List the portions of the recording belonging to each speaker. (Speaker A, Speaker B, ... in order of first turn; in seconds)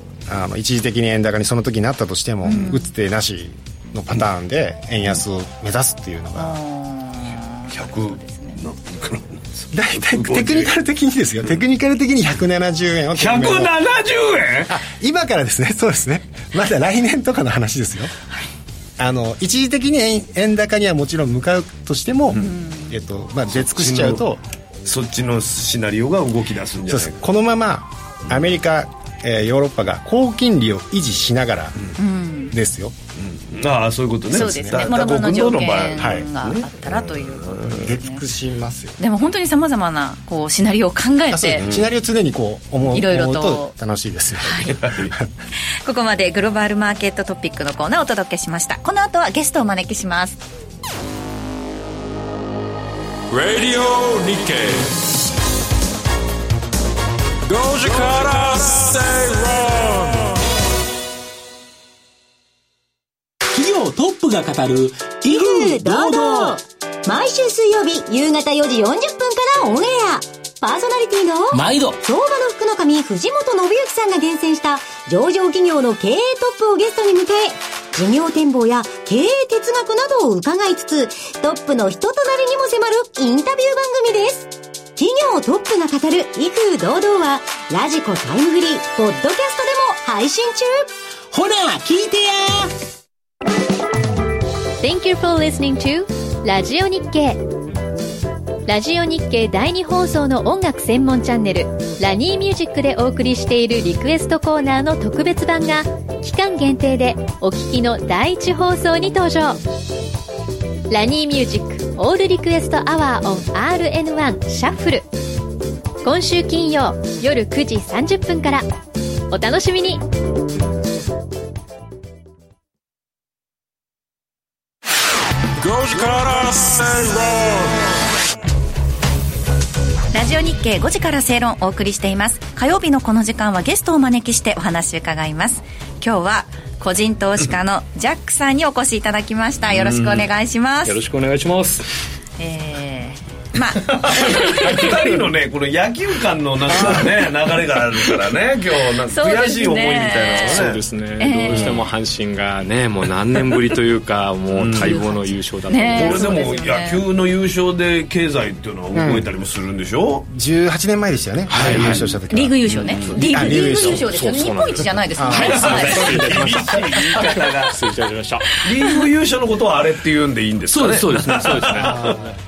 Speaker A: 0.3-6.6, 9.7-13.8, 14.7-18.1, 19.0-24.4, 26.9-31.8, 32.5-33.0, 34.3-34.9, 36.0-36.2, 37.7-39.0, 41.3-45.3, 158.9-159.3, 160.3-164.1, 165.2-166.6, 171.8-172.4
Speaker B: 2.5-2.9, 6.4-8.6, 22.4-22.9, 32.0-32.5, 34.3-38.2, 39.0-41.6, 42.9-43.7, 44.4-44.8, 45.8-50.4, 130.1-141.0, 142.4-145.0, 149.1-150.7, 151.2-151.8, 154.8-157.0, 162.3-166.2
Speaker C: 7.7-10.7, 13.2-14.8, 23.5-24.2, 24.9-27.2, 33.2-37.9, 41.6-41.9, 44.8-45.1, 139.7-140.3, 143.9-150.8, 151.5-151.8, 154.5-155.1, 155.9-160.3, 161.5-162.1, 162.7-163.2, 165.3-167.8, 168.6-172.2
Speaker D: 53.3-55.0, 57.5-60.4, 125.6-127.8
Speaker E: 63.5-66.6, 71.5-72.0, 91.3-92.8
Speaker F: 65.3-90.9
Speaker G: 94.8-97.4, 98.7-109.6, 110.9-115.1, 116.0-118.7, 119.3-120.0
Speaker H: 140.8-141.9, 150.4-156.4, 161.5-162.1, 163.2-168.6, 170.7-172.3